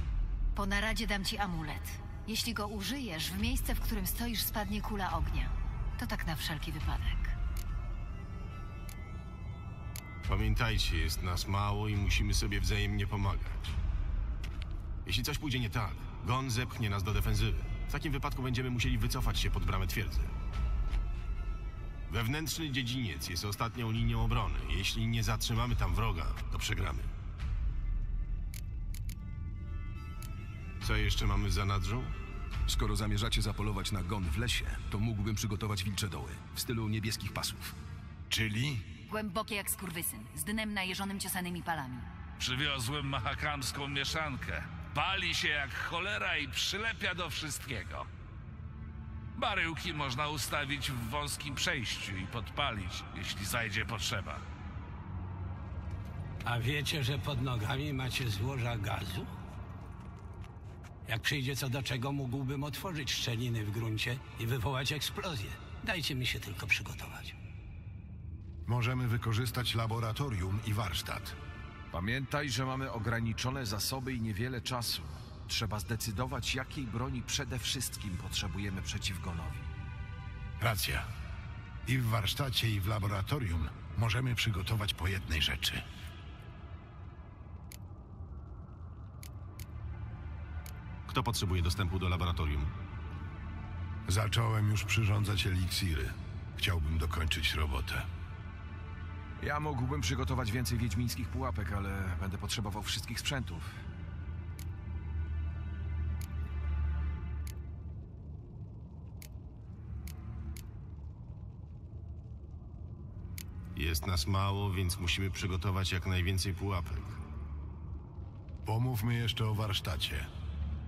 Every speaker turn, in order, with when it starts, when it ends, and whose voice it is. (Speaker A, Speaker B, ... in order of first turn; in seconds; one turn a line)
Speaker A: 0.6-7.3
Speaker B: 10.2-13.8
Speaker B: 15.1-20.3
Speaker B: 22.1-27.1
Speaker B: 30.8-32.2
Speaker C: 32.7-37.8
Speaker D: 38.3-38.8
Speaker A: 39.1-42.0
Speaker E: 42.4-48.0
Speaker E: 49.4-54.4
Speaker F: 56.5-59.3
Speaker F: 61.1-67.3
Speaker D: 68.7-71.4
Speaker G: 71.9-79.7
Speaker D: 80.6-81.0
Speaker D: 81.9-85.8
Speaker B: 91.1-92.7
Speaker D: 94.1-98.1
Speaker G: 99.4-103.7
Speaker B: 113.8-117.2
Speaker D: 118.7-120.3